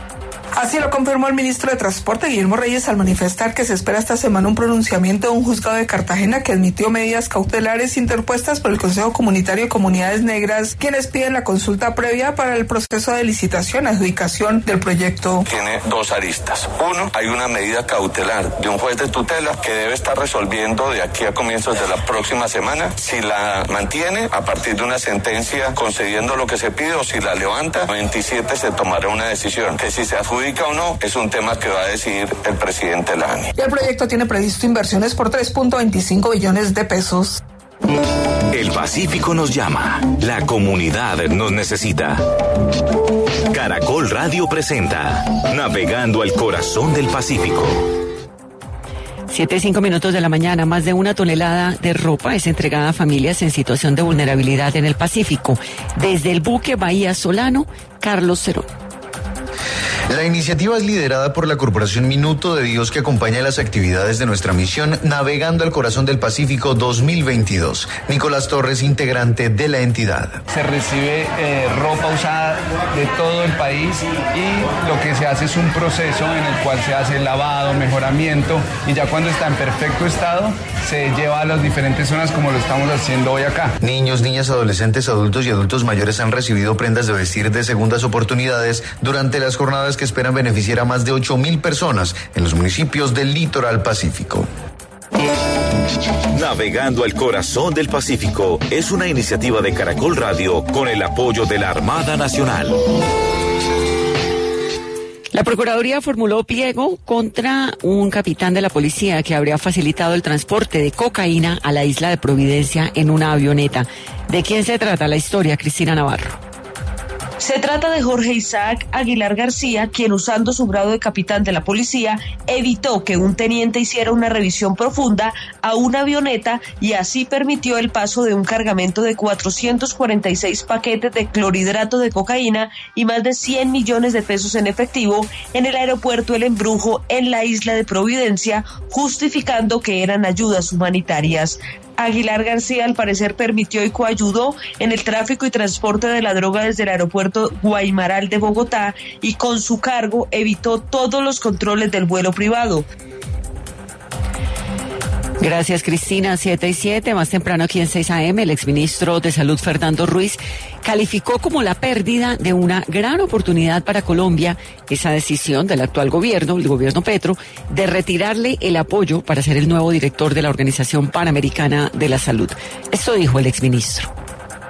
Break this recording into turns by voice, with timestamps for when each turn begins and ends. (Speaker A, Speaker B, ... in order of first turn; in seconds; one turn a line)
Speaker A: 0.5-15.4
Speaker B: 15.4-33.5
Speaker A: 33.6-37.4
Speaker C: 38.5-42.2
Speaker C: 43.5-47.8
Speaker D: 49.3-58.7
Speaker E: 60.1-70.4
Speaker F: 70.5-83.7
Speaker E: 83.8-94.5
Speaker C: 96.3-102.8
Speaker D: 105.3-116.4
Speaker G: 117.4-152.9
Speaker D: 155.4-174.1